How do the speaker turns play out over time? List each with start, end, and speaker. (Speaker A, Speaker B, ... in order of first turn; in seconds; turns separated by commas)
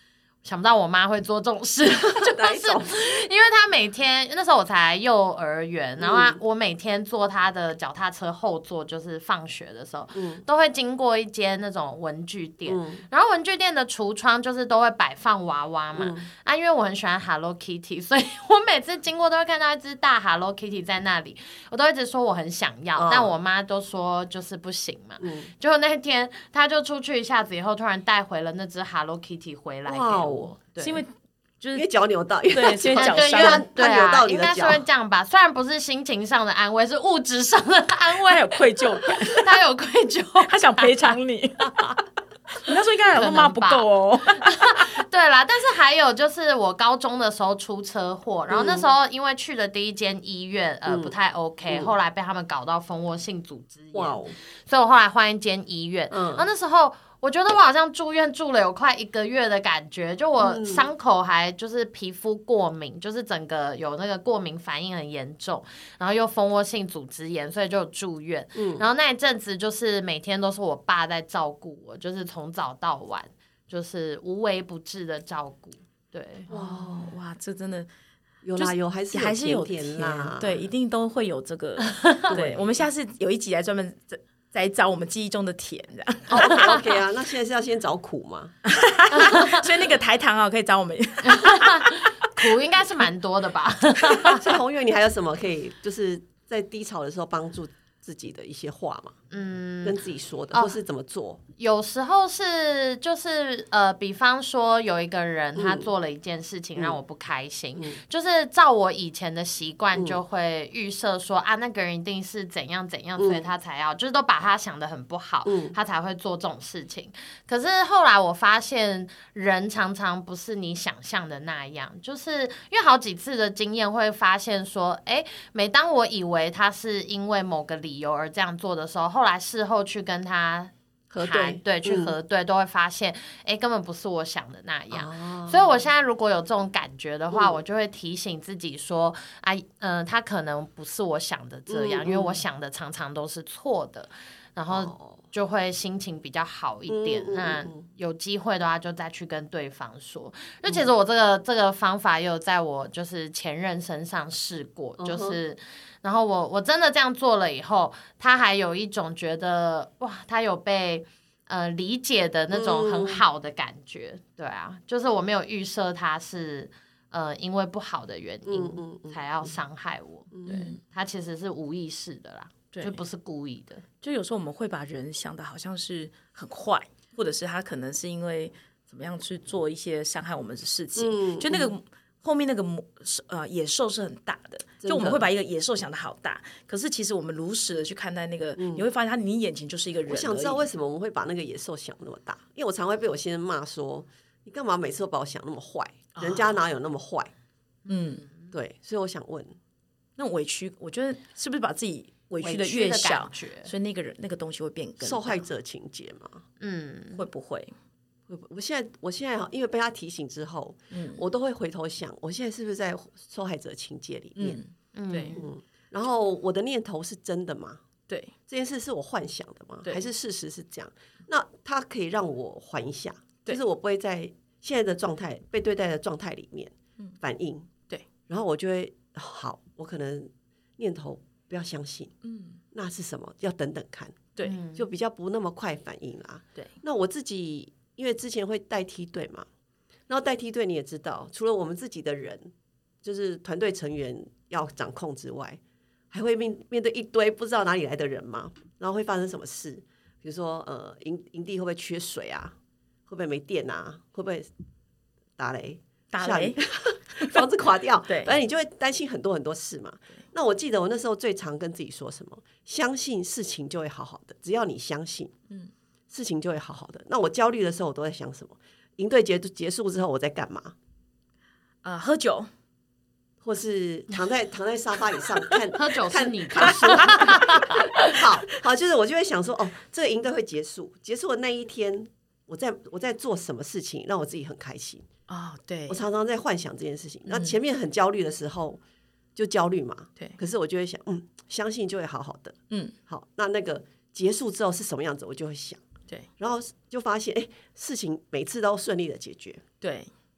Speaker A: 0.4-31.0, Speaker B: 2.2-2.9, Speaker B: 6.0-6.4, Speaker B: 10.1-10.4, Speaker B: 12.7-13.0, Speaker B: 16.0-16.3, Speaker B: 23.0-23.3, Speaker B: 25.2-25.5, Speaker B: 29.9-30.7, Speaker C: 30.8-31.9, Speaker B: 31.7-34.8, Speaker C: 32.5-33.7, Speaker A: 33.0-42.0, Speaker C: 38.1-39.5, Speaker C: 40.4-41.7, Speaker C: 42.6-44.4, Speaker A: 43.1-76.5, Speaker B: 48.5-48.9, Speaker B: 50.9-51.1, Speaker B: 51.7-51.9, Speaker B: 53.9-54.3, Speaker B: 56.1-56.5, Speaker B: 60.4-60.9, Speaker B: 68.5-68.9, Speaker C: 76.5-77.9, Speaker B: 76.5-77.1, Speaker B: 78.4-80.6, Speaker C: 78.6-86.8, Speaker B: 82.3-82.8, Speaker B: 86.3-88.5, Speaker C: 88.7-91.9, Speaker A: 89.1-89.6, Speaker A: 91.3-94.4, Speaker B: 94.3-99.2, Speaker A: 99.3-100.0, Speaker B: 99.8-101.4, Speaker A: 101.6-173.8, Speaker B: 105.5-105.9, Speaker B: 110.0-110.2, Speaker B: 113.2-113.5, Speaker B: 115.5-115.8, Speaker B: 131.1-132.1, Speaker B: 134.9-135.8, Speaker B: 137.3-137.6, Speaker B: 141.7-142.4, Speaker B: 144.7-145.2, Speaker B: 146.9-147.8, Speaker B: 155.0-155.4, Speaker B: 162.5-163.2, Speaker B: 168.5-169.6, Speaker B: 170.3-170.6, Speaker C: 170.5-170.8, Speaker C: 172.7-173.0, Speaker C: 174.0-190.7, Speaker B: 181.0-181.7, Speaker B: 184.8-185.3, Speaker B: 188.6-188.9, Speaker B: 190.1-197.3, Speaker C: 196.2-196.6, Speaker C: 197.9-198.2, Speaker A: 197.9-198.5, Speaker B: 198.5-199.5, Speaker C: 200.2-205.4, Speaker A: 202.4-203.7, Speaker B: 205.0-206.4, Speaker A: 206.6-207.2, Speaker C: 207.2-207.7, Speaker B: 208.3-214.6, Speaker C: 210.9-211.2, Speaker C: 214.4-215.3, Speaker A: 214.9-215.5, Speaker B: 215.3-217.8, Speaker B: 218.5-227.7, Speaker B: 228.3-232.1, Speaker C: 232.2-232.6, Speaker B: 232.7-239.5, Speaker A: 234.4-234.9, Speaker B: 240.1-242.5, Speaker B: 243.0-245.6, Speaker B: 246.1-252.6, Speaker B: 253.1-254.5, Speaker B: 255.4-265.3, Speaker C: 256.1-257.4, Speaker C: 258.1-258.4, Speaker B: 266.1-270.8, Speaker C: 271.8-272.5, Speaker B: 273.4-285.1, Speaker A: 275.7-277.7, Speaker C: 276.8-277.2, Speaker C: 278.0-278.3, Speaker C: 285.3-286.0, Speaker B: 285.9-288.8, Speaker C: 287.3-287.6, Speaker B: 289.4-292.6, Speaker B: 293.1-295.8, Speaker B: 296.4-299.6, Speaker C: 299.8-300.1